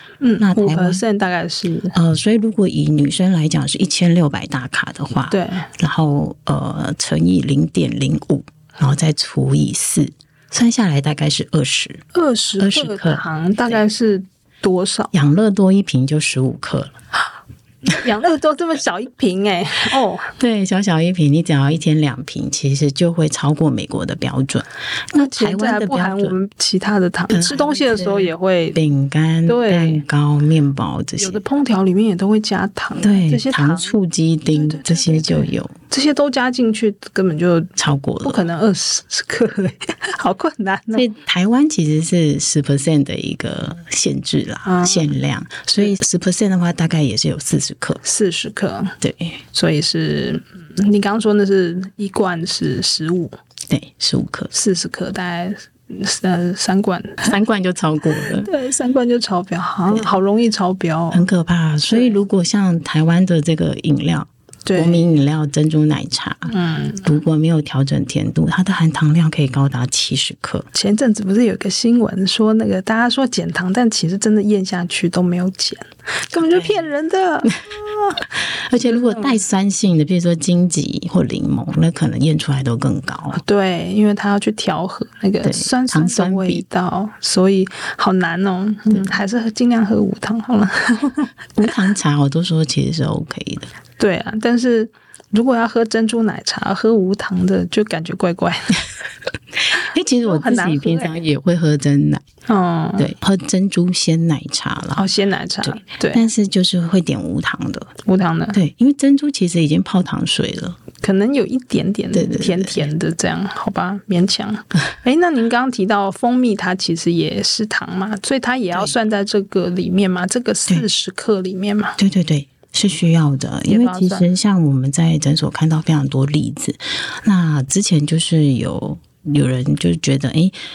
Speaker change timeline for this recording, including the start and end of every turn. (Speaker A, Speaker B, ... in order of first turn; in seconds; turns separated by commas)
Speaker A: 0.2-1.9, Speaker B: 0.4-1.0, Speaker B: 1.9-12.0, Speaker A: 5.3-5.7, Speaker A: 12.1-15.1, Speaker B: 12.6-13.8, Speaker B: 15.1-17.0, Speaker A: 17.9-20.3, Speaker B: 20.4-26.4, Speaker A: 25.1-28.8, Speaker B: 27.3-31.4, Speaker A: 29.5-30.0, Speaker A: 31.2-33.9, Speaker B: 33.0-35.8, Speaker A: 34.5-41.0, Speaker B: 37.8-38.5, Speaker B: 40.9-48.0, Speaker A: 44.6-45.1, Speaker A: 48.0-49.0, Speaker B: 49.0-49.4, Speaker A: 49.5-53.3, Speaker B: 53.7-54.5, Speaker A: 54.5-57.3, Speaker B: 57.2-58.5, Speaker A: 58.4-61.3, Speaker B: 61.1-70.7, Speaker A: 61.9-62.1, Speaker A: 64.7-65.1, Speaker A: 66.5-67.1, Speaker A: 70.7-78.2, Speaker B: 76.3-76.8, Speaker B: 78.4-83.4, Speaker A: 78.8-79.4, Speaker A: 83.4-91.3, Speaker B: 85.4-86.6, Speaker B: 91.6-93.7, Speaker A: 94.0-98.8, Speaker B: 99.6-102.2, Speaker A: 100.2-101.2, Speaker A: 102.5-103.1, Speaker B: 103.0-105.0, Speaker A: 105.0-106.3, Speaker B: 105.7-107.9, Speaker A: 108.0-108.6, Speaker B: 108.5-110.8, Speaker A: 111.0-122.0, Speaker B: 112.1-112.9, Speaker B: 122.0-130.6, Speaker A: 123.7-124.3